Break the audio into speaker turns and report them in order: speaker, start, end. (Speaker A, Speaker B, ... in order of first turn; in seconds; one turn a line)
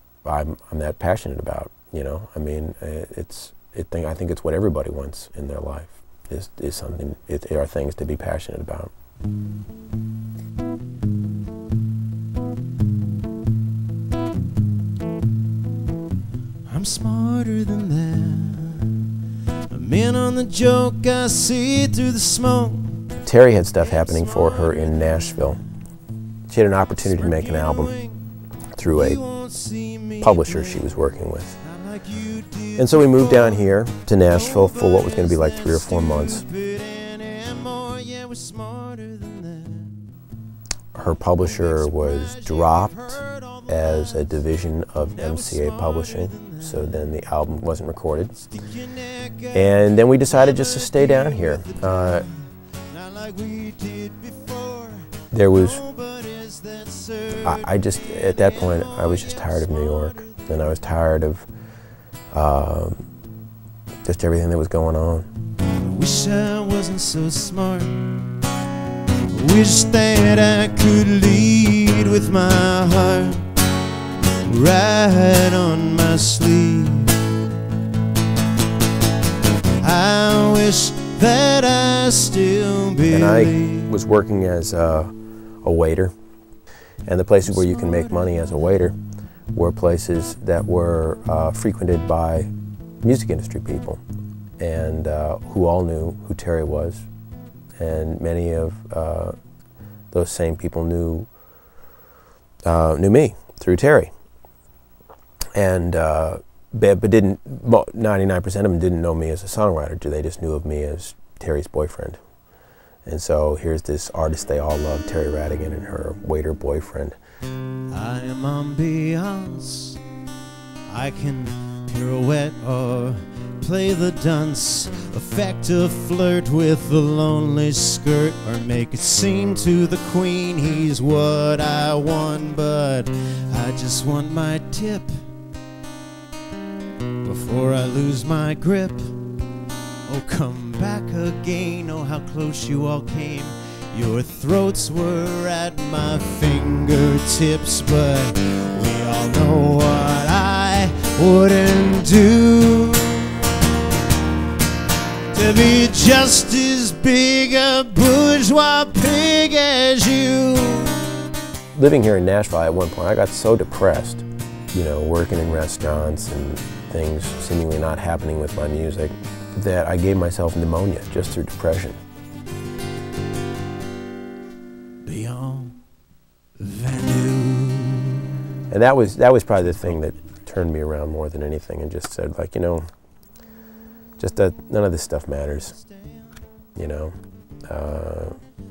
Speaker A: 0.2-8.9
Speaker B: 16.7-18.9
Speaker B: 19.7-23.0
Speaker A: 23.2-25.6
Speaker B: 23.8-25.6
Speaker A: 26.5-27.9
Speaker B: 27.0-28.4
Speaker A: 28.7-29.2
Speaker B: 28.9-31.1
Speaker A: 30.2-31.6
Speaker B: 31.6-40.0
Speaker A: 32.8-36.4
Speaker A: 40.9-48.3
Speaker B: 41.4-44.5
Speaker B: 45.1-47.1
Speaker B: 48.3-60.8
Speaker A: 49.5-52.2
Speaker A: 55.3-55.8
Speaker A: 57.4-61.5
Speaker A: 62.3-63.0
Speaker A: 64.0-65.3
Speaker B: 65.8-68.1
Speaker B: 69.3-73.5
Speaker B: 74.4-77.1
Speaker B: 79.8-83.9
Speaker A: 83.1-85.1
Speaker A: 85.6-86.1
Speaker A: 87.0-88.9
Speaker A: 89.5-92.5
Speaker A: 93.0-94.0
Speaker A: 94.6-97.0
Speaker A: 97.8-99.3
Speaker A: 100.1-101.3
Speaker A: 102.7-104.1
Speaker A: 105.5-112.2
Speaker A: 113.0-117.2
Speaker B: 117.9-120.0
Speaker B: 120.9-135.1
Speaker B: 137.2-139.2
Speaker B: 140.1-153.3
Speaker B: 155.3-161.0
Speaker A: 161.7-172.0
Speaker B: 175.0-175.8
Speaker B: 176.6-178.3
Speaker A: 178.7-182.9
Speaker A: 184.2-185.7
Speaker B: 185.7-186.3
Speaker A: 186.8-188.4